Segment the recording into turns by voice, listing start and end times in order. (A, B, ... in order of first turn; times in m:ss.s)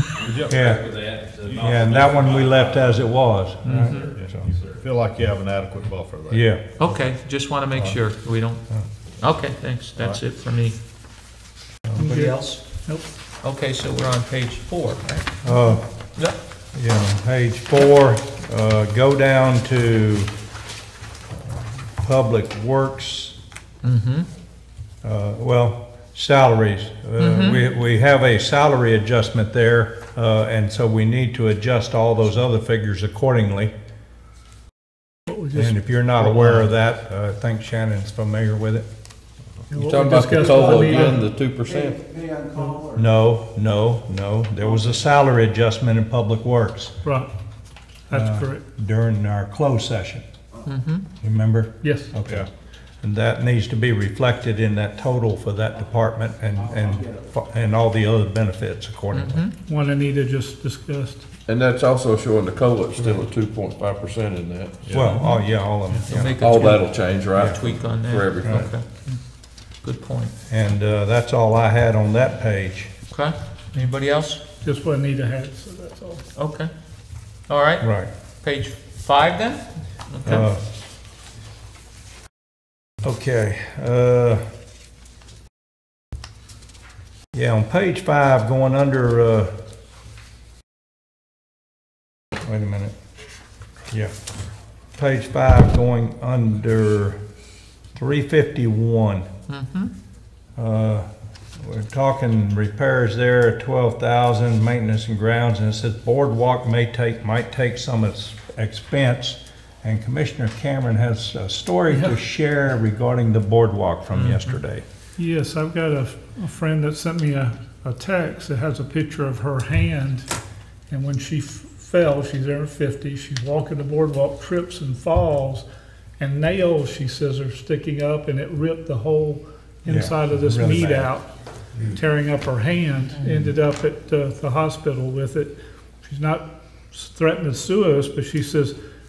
0:00.1-0:03.2 A
0:00.3-0:00.8 B
0:00.5-0:00.9 C
0:01.4-0:01.7 B
0:01.5-0:04.4 C
0:03.6-0:04.1 D
0:03.8-0:04.8 A
0:04.2-0:07.1 B
0:06.3-0:06.7 C
0:06.8-0:08.6 D
0:07.7-0:08.0 B
0:09.2-0:10.8 D
0:12.0-0:12.6 D
0:12.0-0:13.1 E
0:13.4-0:15.4 D
0:15.4-0:15.8 C
0:16.7-0:20.3 C
0:21.4-0:23.3 C
0:23.8-0:24.3 D
0:25.0-0:33.7 C
0:27.2-0:27.6 D
0:35.3-0:36.7 E
0:35.5-0:38.8 C
0:39.7-0:41.2 E
0:39.7-0:42.0 F
0:40.2-0:43.1 G
0:42.9-0:46.9 C
0:44.6-0:45.0 G
0:47.0-0:47.3 E
0:48.1-0:48.6 E
0:48.1-0:50.2 C
0:50.6-0:51.0 D
0:51.2-0:52.5 C
0:51.8-0:52.1 E
0:53.0-0:59.4 C
0:56.5-0:57.3 G
0:59.1-0:59.5 D
0:59.6-1:01.2 E
1:01.5-1:04.8 F
1:04.9-1:05.2 B
1:04.9-1:06.6 C
1:05.1-1:05.4 D
1:06.1-1:08.8 D
1:06.4-1:08.7 F
1:09.8-1:10.3 D
1:10.5-1:12.9 C
1:13.1-1:14.4 D
1:14.6-1:16.2 E
1:16.4-1:16.7 D
1:17.5-1:20.5 D
1:17.8-1:18.1 C
1:20.2-1:20.6 C
1:23.0-1:24.4 C
1:27.3-1:29.5 C
1:32.4-1:32.9 C
1:35.0-1:37.2 C
1:37.9-1:39.3 C
1:39.5-1:39.9 D
1:40.6-1:54.8 C
1:54.1-1:54.6 D
1:55.2-2:00.3 E
2:00.9-2:05.6 E
2:06.2-2:11.3 E
2:09.9-2:11.1 C
2:11.9-2:18.8 E